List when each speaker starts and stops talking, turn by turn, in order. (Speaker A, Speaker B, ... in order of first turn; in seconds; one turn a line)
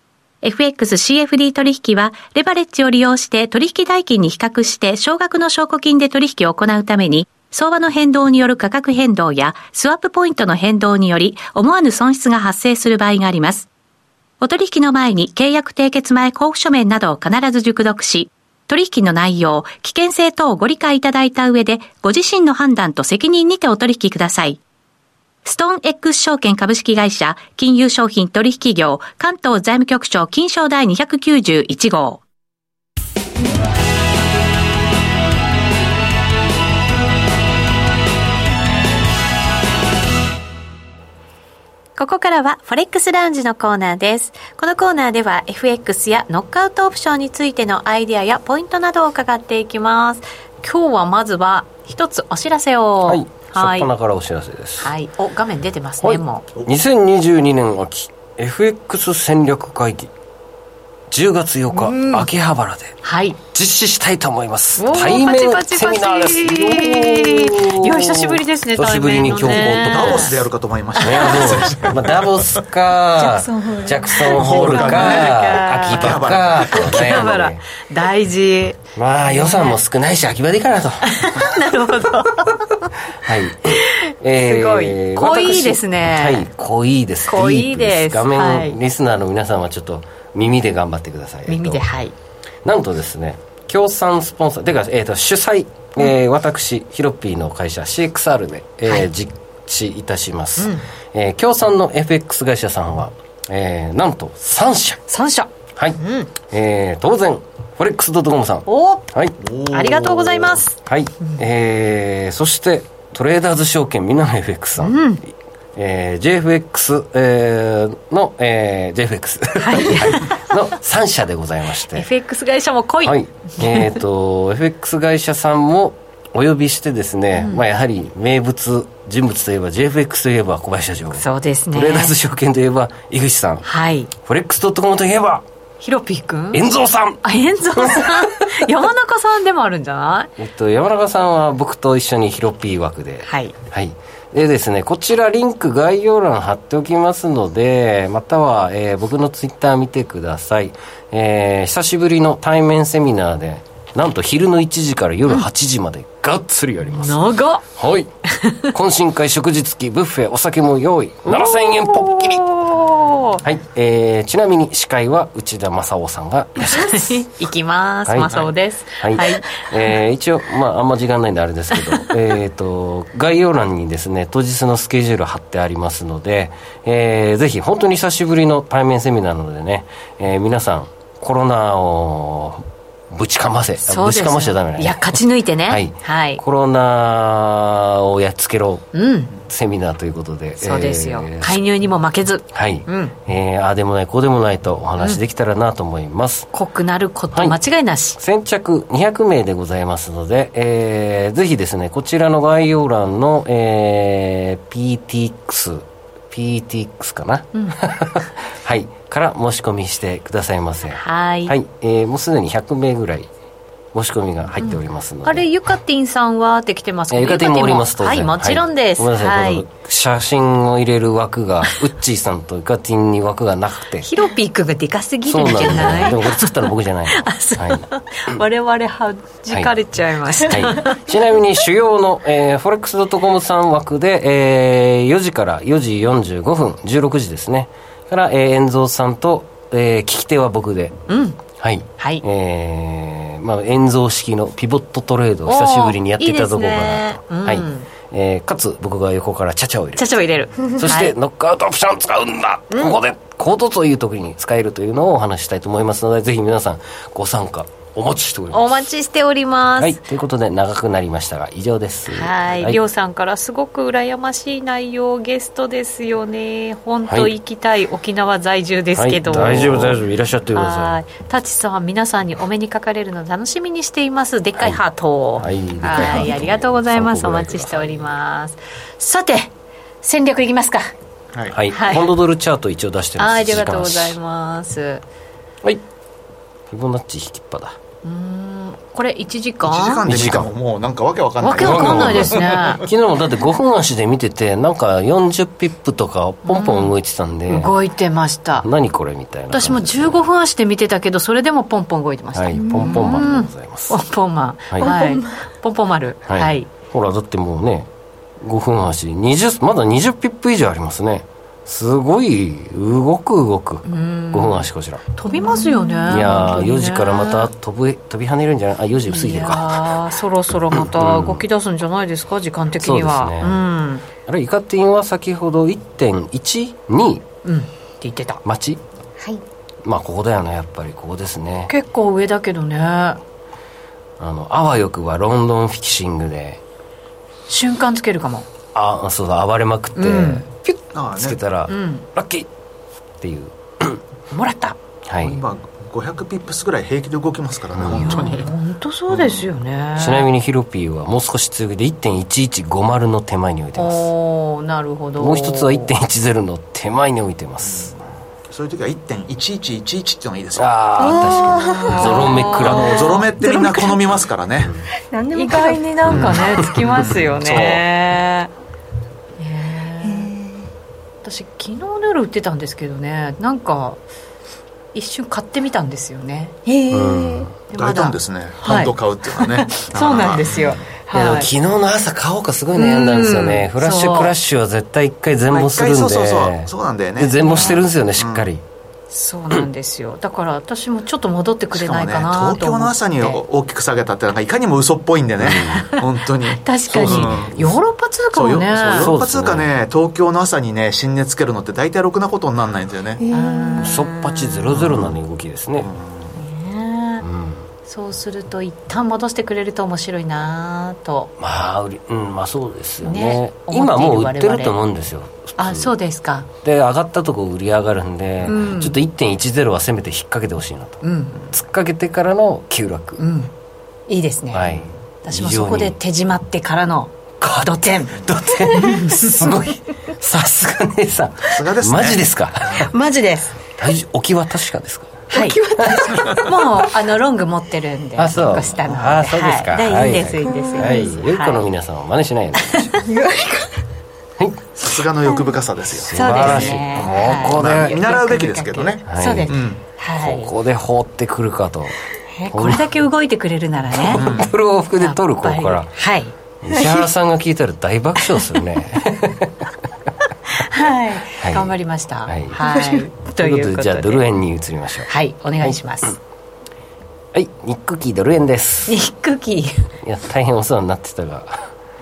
Speaker A: 0.4-13.7
Speaker A: 14.4-24.6
Speaker A: 25.4-32.2
Speaker B: 42.0-53.9
Speaker C: 53.1-54.9
Speaker B: 54.8-56.5
Speaker C: 56.0-60.1
Speaker C: 61.1-63.0
Speaker B: 61.7-62.3
Speaker B: 63.0-63.4
Speaker C: 63.5-70.4
Speaker B: 64.8-70.4
Speaker D: 69.4-72.2
Speaker B: 71.0-71.9
Speaker C: 71.0-77.6
Speaker B: 73.2-79.8
Speaker D: 74.3-77.2
Speaker C: 79.0-81.2
Speaker B: 81.0-82.9
Speaker C: 83.2-91.8
Speaker B: 83.7-86.5
Speaker B: 87.2-88.8
Speaker B: 91.5-92.2
Speaker C: 92.7-105.0
Speaker B: 100.6-100.8
Speaker B: 105.1-106.3
Speaker C: 105.8-109.4
Speaker B: 108.7-109.1
Speaker D: 109.4-110.5
Speaker B: 109.7-111.4
Speaker C: 110.7-115.1
Speaker B: 114.8-115.2
Speaker C: 115.8-122.1
Speaker B: 119.6-120.5
Speaker B: 121.9-124.0
Speaker C: 123.0-133.7
Speaker B: 127.3-127.6
Speaker B: 131.1-132.1
Speaker B: 133.6-134.1
Speaker C: 134.2-135.4
Speaker B: 135.8-136.6
Speaker C: 136.5-137.2
Speaker B: 137.2-140.3
Speaker C: 137.8-138.7
Speaker C: 140.4-158.1
Speaker B: 143.2-143.5
Speaker B: 156.8-157.7
Speaker B: 158.3-158.7
Speaker C: 158.7-162.7
Speaker B: 161.3-163.4
Speaker C: 163.4-167.2
Speaker B: 166.6-170.0
Speaker C: 168.1-168.4
Speaker C: 169.0-188.9
Speaker B: 171.7-172.1
Speaker B: 183.8-186.4
Speaker B: 188.9-189.3
Speaker C: 189.4-191.6
Speaker B: 190.6-193.1
Speaker C: 192.5-196.5
Speaker B: 196.5-198.2
Speaker C: 197.3-197.6
Speaker C: 198.2-213.3
Speaker B: 210.9-211.5
Speaker C: 213.9-215.5
Speaker B: 214.6-219.7
Speaker C: 217.1-224.1
Speaker B: 224.0-231.2
Speaker C: 225.2-227.9
Speaker C: 230.4-240.9
Speaker B: 241.1-241.4
Speaker C: 241.5-250.1
Speaker B: 242.0-242.2
Speaker B: 245.5-247.9
Speaker B: 250.0-251.1
Speaker C: 250.7-258.7
Speaker B: 258.5-260.0
Speaker C: 259.8-262.8
Speaker B: 262.1-270.0
Speaker C: 267.1-267.3
Speaker C: 268.9-271.0
Speaker B: 270.5-280.9
Speaker C: 275.4-278.1
Speaker C: 281.5-284.2
Speaker B: 281.7-282.1
Speaker B: 283.2-285.0
Speaker C: 286.7-287.8
Speaker B: 288.0-290.1
Speaker D: 289.6-292.8
Speaker C: 290.1-290.5
Speaker B: 291.4-292.8
Speaker C: 291.5-297.8
Speaker B: 296.4-296.9
Speaker B: 297.5-298.7
Speaker C: 298.6-300.2
Speaker B: 299.5-306.7
Speaker C: 302.3-304.0
Speaker E: 302.5-303.3
Speaker E: 304.8-305.3
Speaker C: 306.3-307.9
Speaker C: 308.4-315.0
Speaker B: 313.9-317.5
Speaker E: 315.4-316.1
Speaker C: 316.1-319.9
Speaker B: 319.1-324.1
Speaker C: 320.7-321.4
Speaker C: 322.8-323.6
Speaker C: 324.2-327.2
Speaker B: 327.4-328.4
Speaker C: 328.4-328.8
Speaker C: 329.8-331.7
Speaker B: 331.7-333.2
Speaker C: 334.2-336.6
Speaker B: 337.5-338.5
Speaker C: 338.7-342.5
Speaker B: 339.9-340.4
Speaker D: 340.9-341.4
Speaker B: 341.7-342.1
Speaker C: 343.2-344.0
Speaker B: 344.3-344.8
Speaker C: 345.1-345.4
Speaker D: 345.2-348.5
Speaker C: 347.8-348.4
Speaker B: 347.9-350.3
Speaker C: 350.0-354.1
Speaker B: 353.8-355.9
Speaker C: 355.2-357.9
Speaker D: 357.7-357.9
Speaker D: 358.5-361.0
Speaker C: 360.6-363.0
Speaker E: 361.0-364.2
Speaker B: 361.6-363.2
Speaker D: 362.6-364.7
Speaker E: 365.1-365.9
Speaker B: 365.3-368.5
Speaker C: 366.1-367.8
Speaker D: 366.1-367.4
Speaker B: 369.4-370.3
Speaker E: 370.0-370.7
Speaker B: 371.2-374.0
Speaker B: 374.9-376.6
Speaker E: 376.7-377.5
Speaker C: 376.9-377.5
Speaker B: 377.7-381.5
Speaker D: 377.8-380.7
Speaker C: 381.1-388.6
Speaker B: 382.7-384.3
Speaker D: 385.5-388.5
Speaker B: 387.4-387.8
Speaker B: 389.1-393.4
Speaker D: 391.7-397.6
Speaker C: 395.4-395.9
Speaker B: 395.4-399.2
Speaker C: 397.0-397.8
Speaker D: 398.3-403.2
Speaker C: 398.9-399.7
Speaker E: 403.2-403.9
Speaker B: 403.3-404.7
Speaker C: 403.8-405.9
Speaker D: 404.7-405.2
Speaker D: 405.8-406.3
Speaker B: 406.4-407.2
Speaker C: 407.2-407.7
Speaker B: 407.9-411.3
Speaker C: 411.4-415.9
Speaker B: 413.0-414.8
Speaker B: 415.6-416.5
Speaker C: 416.6-423.2
Speaker B: 418.4-419.0
Speaker B: 421.0-421.4
Speaker B: 423.2-423.5
Speaker B: 424.1-424.7
Speaker C: 424.5-426.0
Speaker B: 425.2-429.7
Speaker C: 427.4-432.9
Speaker D: 431.5-432.3
Speaker B: 432.8-433.5
Speaker C: 433.8-436.2
Speaker B: 435.3-441.7
Speaker E: 435.3-436.5
Speaker C: 438.2-443.0
Speaker E: 440.4-441.2
Speaker B: 442.5-443.2
Speaker E: 443.0-443.7
Speaker C: 444.4-444.7
Speaker D: 444.8-449.8
Speaker C: 445.9-448.1
Speaker B: 446.1-450.5
Speaker C: 449.1-449.5
Speaker C: 450.2-452.0
Speaker B: 452.3-454.3
Speaker C: 452.5-452.9
Speaker C: 454.1-456.0
Speaker D: 454.1-454.5
Speaker B: 455.0-456.3
Speaker C: 456.6-459.7
Speaker E: 456.8-457.1
Speaker B: 460.5-464.3
Speaker C: 461.4-461.7
Speaker C: 462.2-462.6
Speaker E: 462.6-463.0
Speaker C: 463.3-465.1
Speaker B: 465.1-466.1
Speaker C: 465.6-466.1
Speaker C: 467.3-469.0
Speaker B: 468.9-469.9
Speaker C: 470.0-471.7